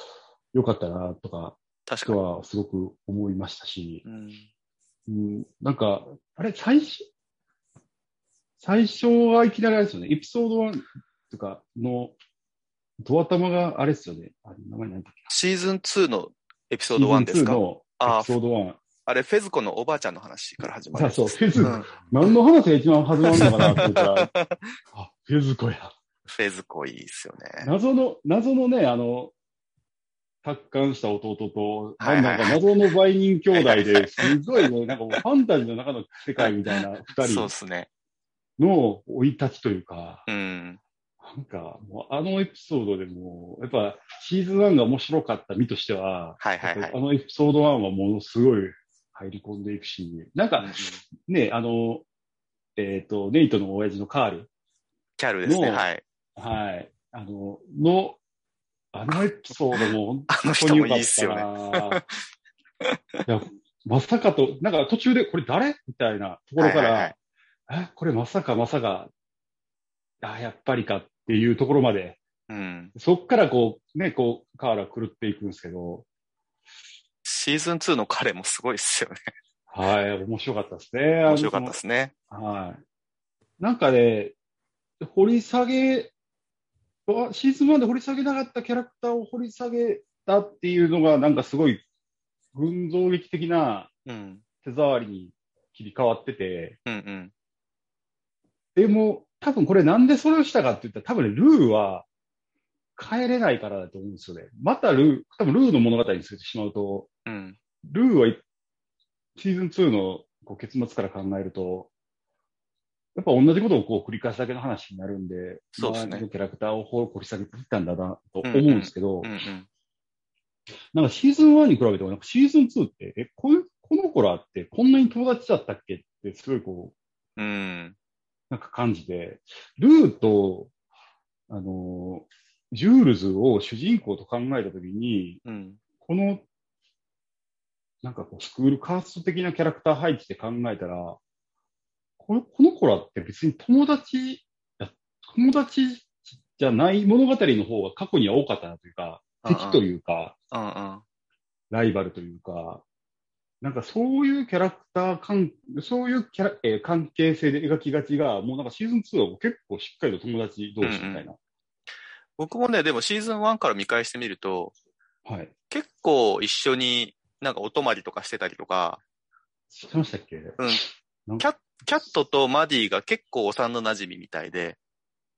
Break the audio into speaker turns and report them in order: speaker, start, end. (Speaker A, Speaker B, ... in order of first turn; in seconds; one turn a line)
Speaker A: 0.5-4.0
Speaker B: 1.9-2.2
Speaker B: 4.0-4.5
Speaker A: 5.1-7.1
Speaker A: 8.6-12.1
Speaker A: 13.0-15.3
Speaker B: 15.3-18.3
Speaker A: 16.9-18.8
Speaker B: 19.1-21.9
Speaker A: 20.9-24.3
Speaker B: 23.3-24.7
Speaker A: 24.9-25.9
Speaker B: 26.3-27.7
Speaker A: 27.6-29.3
Speaker A: 30.4-37.5
Speaker B: 32.0-32.6
Speaker B: 33.5-34.7
Speaker B: 36.4-37.9
Speaker A: 38.6-40.2
Speaker B: 40.3-40.8
Speaker A: 41.2-52.0
Speaker B: 46.4-47.0
Speaker B: 50.6-51.0
Speaker A: 52.8-54.5
Speaker B: 55.2-56.0
Speaker A: 55.5-58.2
Speaker A: 58.9-62.0
Speaker B: 59.7-62.2
Speaker B: 62.8-63.2
Speaker A: 63.2-67.1
Speaker B: 66.6-67.1
Speaker A: 67.7-69.1
Speaker A: 70.2-72.2
Speaker B: 72.5-72.9
Speaker A: 72.9-76.0
Speaker B: 77.2-79.3
Speaker A: 79.7-81.8
Speaker B: 81.2-82.1
Speaker A: 82.3-82.8
Speaker A: 83.6-84.3
Speaker A: 85.0-86.1
Speaker A: 87.1-91.8
Speaker A: 92.5-93.9
Speaker B: 94.0-94.4
Speaker A: 94.6-96.8
Speaker B: 96.8-97.3
Speaker A: 98.8-102.0
Speaker A: 103.0-107.1
Speaker B: 107.2-107.6
Speaker A: 107.8-108.4
Speaker A: 109.3-111.9
Speaker A: 113.1-119.3
Speaker B: 115.8-116.2
Speaker B: 118.4-119.7
Speaker A: 120.9-126.9
Speaker B: 127.4-127.9
Speaker A: 128.5-130.7
Speaker A: 131.5-135.4
Speaker B: 135.4-135.8
Speaker A: 136.0-136.4
Speaker A: 138.0-141.2
Speaker A: 142.2-150.3
Speaker B: 149.4-149.8
Speaker B: 150.5-151.0
Speaker A: 151.7-152.8
Speaker A: 153.6-161.4
Speaker B: 160.8-161.3
Speaker B: 162.4-164.7
Speaker A: 165.2-165.5
Speaker B: 165.7-169.0
Speaker A: 169.7-171.5
Speaker B: 170.6-170.8
Speaker B: 171.4-174.8